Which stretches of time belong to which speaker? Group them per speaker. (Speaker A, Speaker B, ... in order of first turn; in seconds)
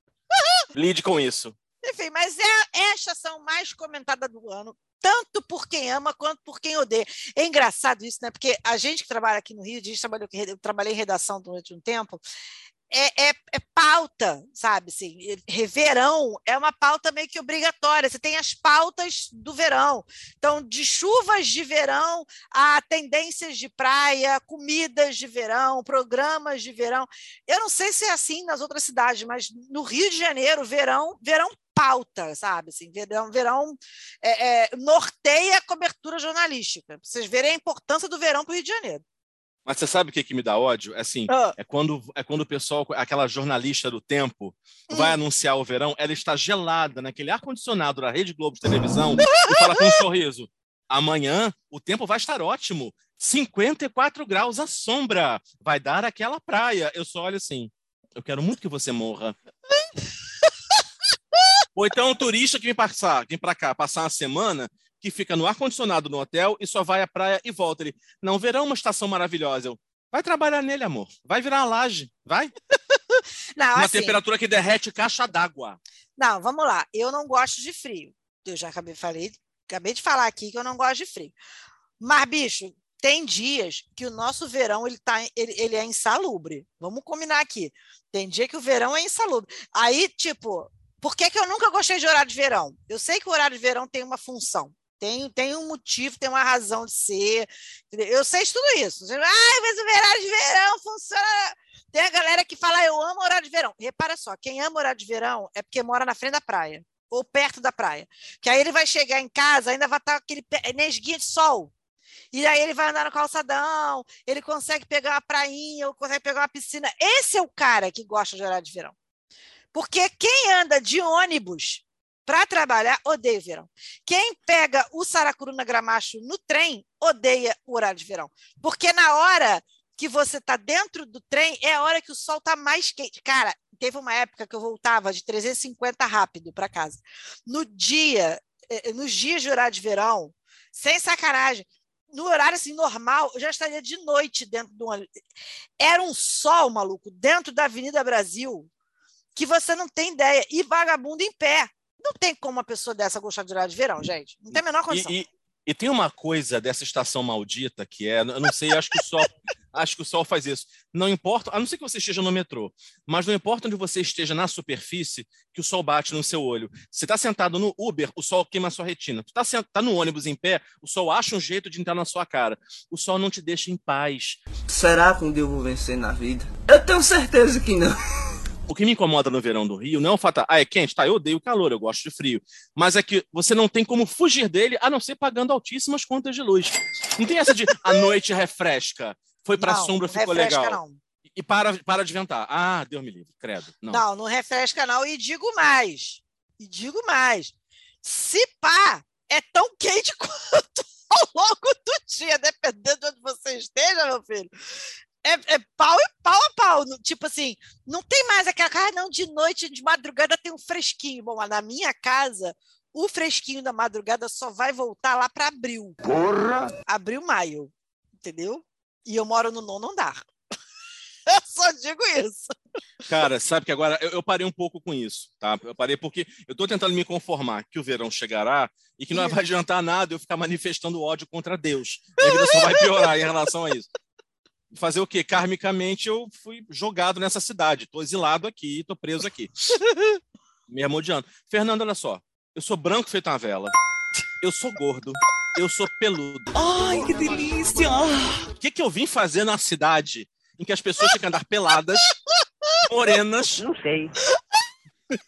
Speaker A: 0.3-0.6, 1.8-12.2, 12.9-39.0, 41.3-41.5, 44.9-45.2, 49.3-50.0, 72.9-74.2, 76.2-81.3, 82.0-111.7, 112.3-119.0, 119.7-145.1, 145.8-148.7, 149.3-155.2, 189.6-191.0, 193.9-204.5, 205.2-216.0, 216.9-220.3, 221.3-222.5, 232.2-233.1
Speaker B: 0.7-1.6, 39.7-59.4, 61.8-72.5, 73.8-75.8, 154.6-174.4, 178.7-190.8, 191.4-194.0, 223.1-233.9, 234.7-239.7, 240.7-243.7, 244.4-246.5, 248.6-252.1, 252.9-253.6
Speaker C: 174.7-178.0
Speaker D: 246.5-248.5